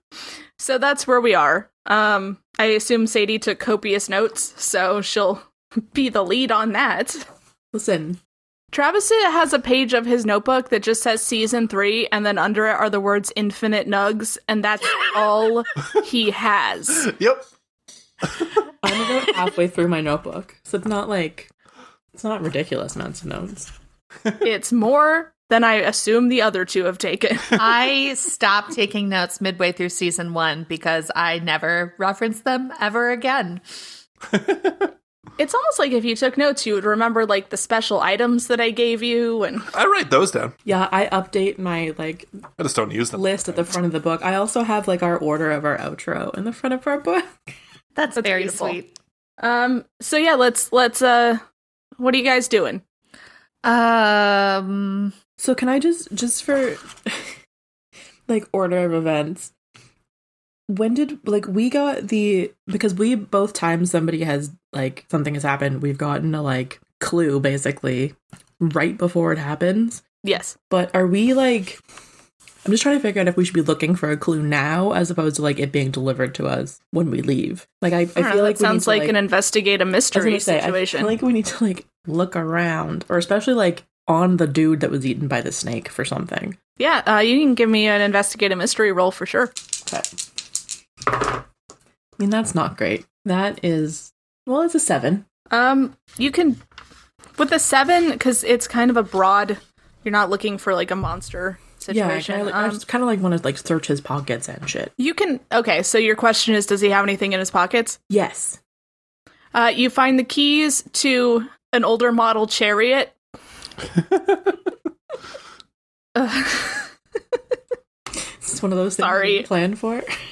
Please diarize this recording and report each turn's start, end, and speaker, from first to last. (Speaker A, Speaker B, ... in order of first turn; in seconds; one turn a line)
Speaker A: 0.6-7.2
Speaker B: 7.7-8.2
Speaker A: 8.7-17.1
Speaker C: 17.0-17.4
Speaker B: 18.8-21.5
Speaker B: 22.1-23.7
Speaker A: 24.4-27.6
Speaker D: 27.6-33.6
Speaker C: 34.3-34.9
Speaker A: 35.4-39.6
Speaker C: 39.7-40.5
Speaker B: 40.6-42.3
Speaker C: 42.6-43.7
Speaker B: 43.1-47.3
Speaker D: 48.0-48.9
Speaker A: 48.1-48.8
Speaker A: 49.4-51.4
Speaker A: 52.0-52.8
Speaker D: 53.6-55.1
Speaker B: 55.4-57.3
Speaker B: 58.3-59.5
Speaker B: 60.7-70.0
Speaker A: 70.2-70.5
Speaker B: 70.7-71.8
Speaker B: 72.6-79.2
Speaker A: 78.2-81.1
Speaker B: 80.1-86.6
Speaker A: 86.8-89.5
Speaker B: 92.2-95.2
Speaker A: 95.5-96.6
Speaker A: 97.4-102.8
Speaker B: 101.9-104.9
Speaker A: 105.0-108.0
Speaker B: 108.1-108.6
Speaker A: 109.5-113.1
Speaker A: 116.2-116.8
Speaker B: 118.4-120.1
Speaker A: 119.0-119.5